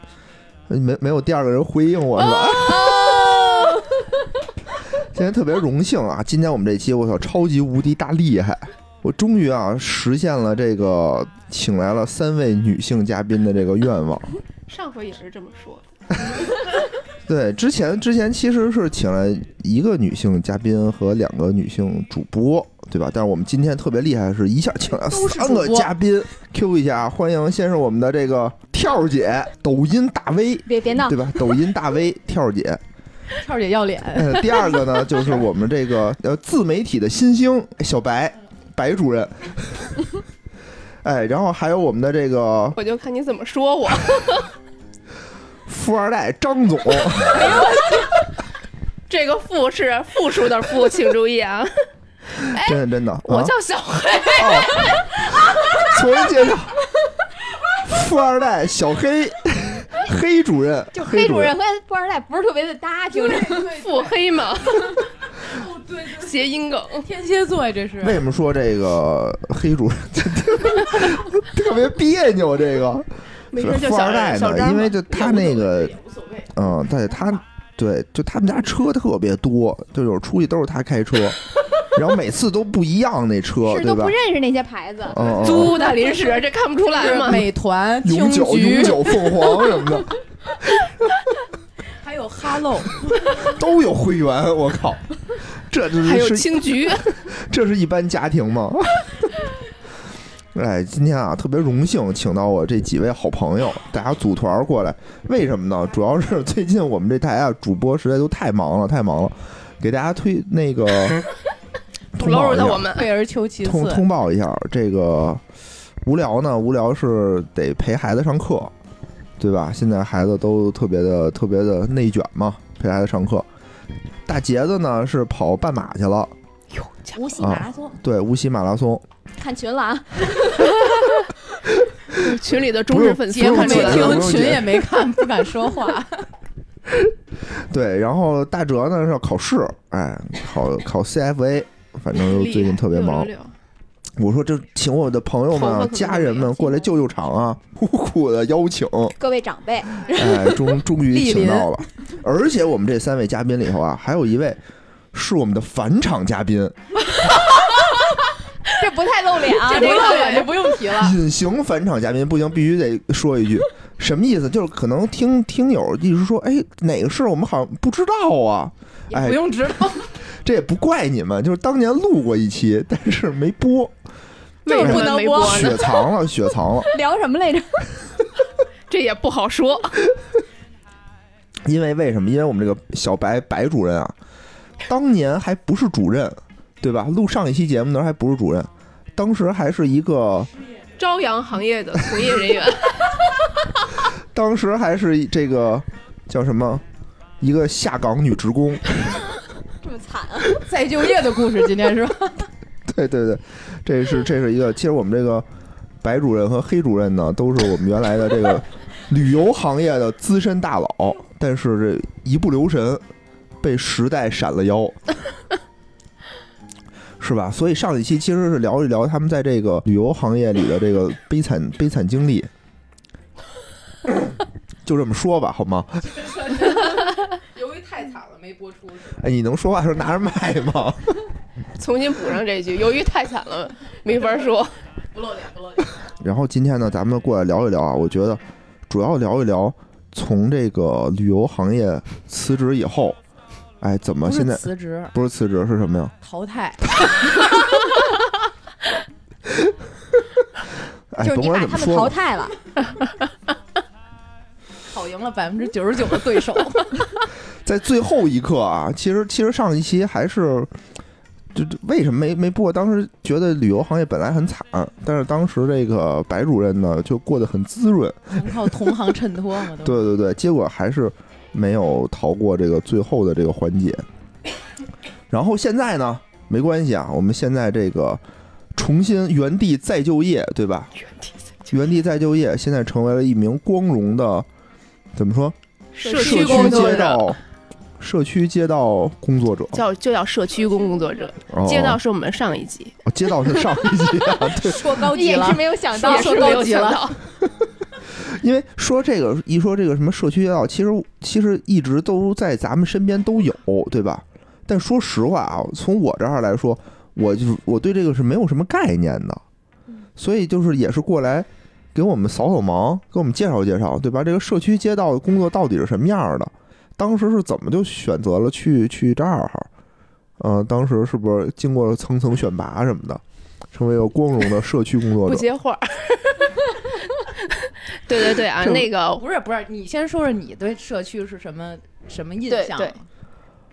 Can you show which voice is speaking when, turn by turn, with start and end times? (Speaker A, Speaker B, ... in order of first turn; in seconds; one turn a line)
Speaker A: 0.7-3.0
Speaker B: 2.2-3.6
Speaker C: 2.6-4.1
Speaker A: 5.0-14.3
Speaker B: 14.7-15.9
Speaker A: 17.3-32.8
Speaker D: 24.9-25.9
Speaker C: 30.7-31.5
Speaker D: 33.4-34.6
Speaker A: 34.1-40.0
Speaker A: 41.0-42.8
Speaker B: 42.8-44.5
Speaker A: 45.7-47.7
Speaker C: 47.3-48.2
Speaker B: 47.4-47.7
Speaker B: 49.1-51.8
Speaker B: 52.4-55.3
Speaker A: 52.6-53.5
Speaker A: 54.4-56.7
Speaker A: 57.9-61.5
Speaker C: 60.9-63.7
Speaker D: 63.3-64.1
Speaker B: 63.7-65.1
Speaker D: 65.4-66.4
Speaker B: 66.1-67.1
Speaker D: 67.0-68.2
Speaker A: 68.0-76.0
Speaker B: 73.5-75.4
Speaker D: 75.2-77.4
Speaker A: 76.5-84.2
Speaker C: 83.6-85.8
Speaker A: 85.1-85.8
Speaker B: 85.4-87.5
Speaker D: 85.8-86.2
Speaker D: 86.9-89.3
Speaker A: 88.0-90.1
Speaker D: 92.0-93.5
Speaker A: 93.2-96.6
Speaker B: 96.0-97.2
Speaker A: 97.2-99.4
Speaker A: 100.5-111.2
Speaker A: 112.2-112.9
Speaker B: 112.2-113.1
Speaker D: 112.9-114.0
Speaker A: 113.6-115.4
Speaker A: 116.0-118.7
Speaker A: 119.4-123.5
Speaker A: 124.3-126.3
Speaker B: 126.7-127.2
Speaker C: 127.1-128.0
Speaker A: 127.4-129.0
Speaker C: 129.4-131.3
Speaker B: 132.1-134.4
Speaker A: 132.9-134.8
Speaker D: 133.3-136.3
Speaker A: 137.1-143.3
Speaker B: 142.1-143.5
Speaker A: 144.2-149.2
Speaker B: 145.5-146.8
Speaker C: 149.2-150.6
Speaker A: 150.1-154.6
Speaker D: 151.1-151.7
Speaker A: 155.1-156.8
Speaker C: 158.8-160.6
Speaker D: 159.6-161.2
Speaker A: 160.9-169.4
Speaker D: 169.1-170.2
Speaker A: 170.2-174.0
Speaker B: 174.7-176.0
Speaker C: 174.7-176.1
Speaker A: 174.8-176.9
Speaker C: 176.8-177.9
Speaker B: 178.9-180.0
Speaker A: 181.7-184.2
Speaker A: 184.9-190.5
Speaker B: 191.0-193.3
Speaker A: 194.3-196.8
Speaker A: 197.4-199.0
Speaker C: 199.8-200.6
Speaker D: 200.6-202.5
Speaker A: 202.9-205.5
Speaker A: 206.0-213.0
Speaker A: 213.6-215.0
Speaker A: 217.2-222.5
Speaker A: 224.8-226.1
Speaker D: 226.1-229.2
Speaker A: 229.2-231.2
Speaker B: 231.8-234.7
Speaker D: 235.2-235.9
Speaker A: 236.2-243.2
Speaker A: 243.8-246.1
Speaker D: 244.2-245.1
Speaker D: 246.2-246.8
Speaker A: 251.1-252.2
Speaker C: 251.2-252.6
Speaker D: 254.9-257.0
Speaker A: 257.6-260.7
Speaker A: 261.5-268.5
Speaker D: 268.3-270.1
Speaker A: 269.8-274.1
Speaker A: 275.3-278.2
Speaker A: 278.7-280.9
Speaker A: 281.7-284.5
Speaker A: 285.1-287.4
Speaker B: 285.9-287.3
Speaker C: 286.0-287.2
Speaker A: 288.0-289.8
Speaker B: 289.7-293.0
Speaker A: 291.5-292.0
Speaker A: 293.1-295.0
Speaker D: 294.5-297.1
Speaker C: 295.0-296.9
Speaker B: 296.0-297.2
Speaker A: 298.2-309.4
Speaker A: 310.2-319.7
Speaker A: 320.4-325.5
Speaker B: 325.2-329.2
Speaker A: 328.6-328.9
Speaker D: 329.2-333.1
Speaker B: 332.5-332.9